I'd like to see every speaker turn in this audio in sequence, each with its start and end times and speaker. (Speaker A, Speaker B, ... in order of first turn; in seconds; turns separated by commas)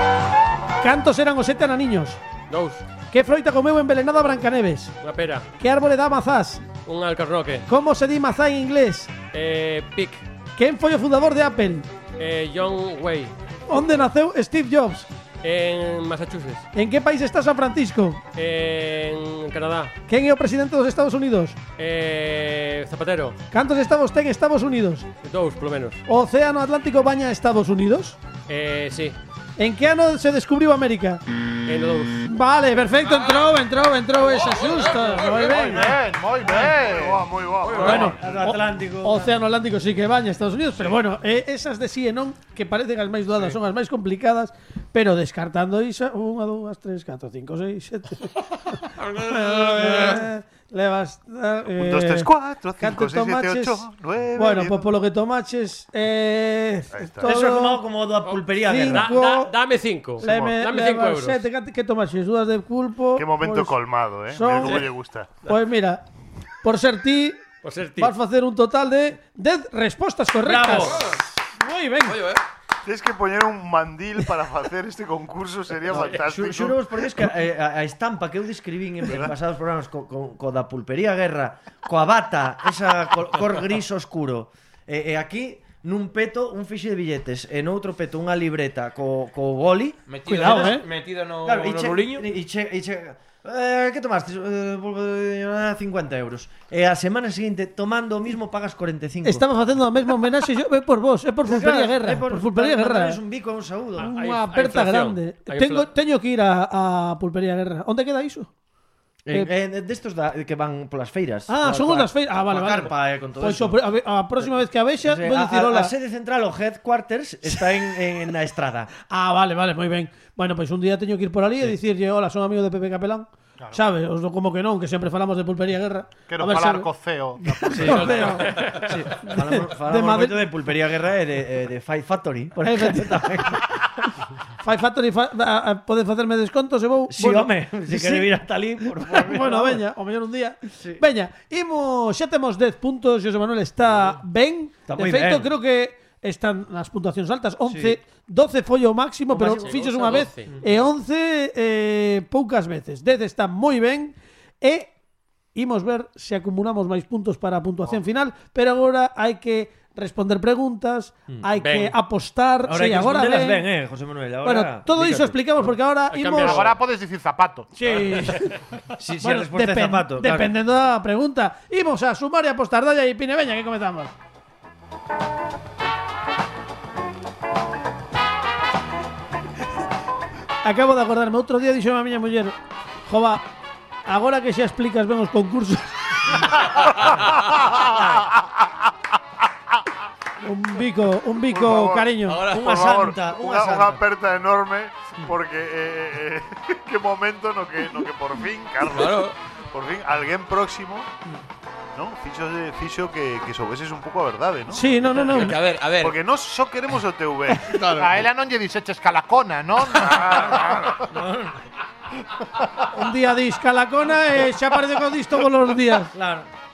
Speaker A: 0.8-2.2, Speaker B: 2.5-2.8, Speaker A: 3.1-4.9, Speaker B: 5.0-5.5, Speaker A: 5.6-6.7, Speaker B: 6.8-7.7, Speaker A: 7.7-9.1, Speaker B: 9.3-10.2, Speaker A: 10.6-11.9, Speaker B: 12.2-13.3, Speaker A: 13.7-15.1, Speaker B: 15.4-16.6, Speaker A: 16.7-18.2, Speaker B: 18.4-19.9, Speaker A: 20.1-21.6, Speaker B: 21.8-23.4, Speaker A: 23.5-25.1, Speaker B: 25.2-26.0, Speaker A: 26.1-28.2, Speaker B: 28.5-29.2, Speaker A: 29.6-31.2, Speaker B: 31.6-32.2, Speaker A: 32.3-35.9, Speaker C: 33.1-33.5, Speaker C: 34.3-35.7, Speaker D: 35.5-37.4, Speaker E: 35.6-36.8, Speaker F: 36.6-38.1, Speaker E: 37.7-39.3, Speaker A: 37.8-57.8, Speaker C: 49.2-49.9, Speaker E: 49.8-50.2, Speaker F: 51.8-54.9, Speaker F: 56.9-57.3, Speaker E: 57.2-59.2, Speaker B: 58.2-61.4, Speaker A: 58.6-59.5, Speaker A: 60.2-63.7, Speaker F: 60.2-60.5, Speaker F: 63.2-65.3, Speaker A: 64.3-64.9, Speaker A: 65.4-66.0, Speaker A: 66.6-67.4, Speaker B: 67.6-68.1, Speaker A: 68.0-71.0, Speaker E: 70.4-71.2, Speaker C: 70.6-71.2, Speaker A: 71.5-72.2, Speaker C: 72.0-72.4, Speaker F: 72.8-76.8, Speaker E: 75.9-90.8, Speaker F: 79.0-79.3, Speaker C: 90.1-92.3, Speaker A: 90.3-90.8, Speaker E: 91.4-99.5, Speaker A: 99.2-103.2, Speaker E: 101.4-104.1, Speaker A: 104.0-108.5, Speaker B: 104.1-105.9, Speaker E: 109.2-113.8, Speaker A: 111.5-115.9, Speaker E: 114.4-118.9, Speaker A: 119.1-126.9, Speaker D: 126.3-128.3, Speaker A: 127.4-130.4, Speaker E: 127.7-133.8, Speaker B: 128.0-128.9, Speaker A: 132.6-133.4, Speaker A: 134.6-138.3, Speaker E: 137.1-139.8, Speaker A: 138.9-154.9, Speaker E: 144.9-145.5, Speaker E: 147.7-148.0, Speaker E: 149.3-150.6, Speaker B: 149.6-150.6, Speaker A: 155.5-163.6, Speaker B: 161.6-162.0, Speaker E: 162.7-164.9, Speaker A: 164.4-166.6, Speaker B: 164.9-166.8, Speaker D: 166.4-168.2, Speaker A: 167.7-168.5, Speaker E: 169.0-170.5, Speaker A: 169.2-174.1, Speaker A: 180.6-182.5, Speaker A: 183.1-183.4, Speaker A: 184.1-186.6, Speaker F: 187.7-188.1, Speaker A: 190.4-192.4, Speaker F: 191.5-201.1, Speaker C: 192.2-192.7, Speaker E: 192.4-194.0, Speaker C: 198.8-199.3, Speaker F: 201.9-207.9, Speaker A: 204.7-205.6, Speaker C: 205.1-206.2, Speaker C: 207.6-208.2, Speaker D: 207.9-211.0, Speaker E: 211.0-211.6, Speaker A: 212.9-216.1, Speaker E: 216.1-216.5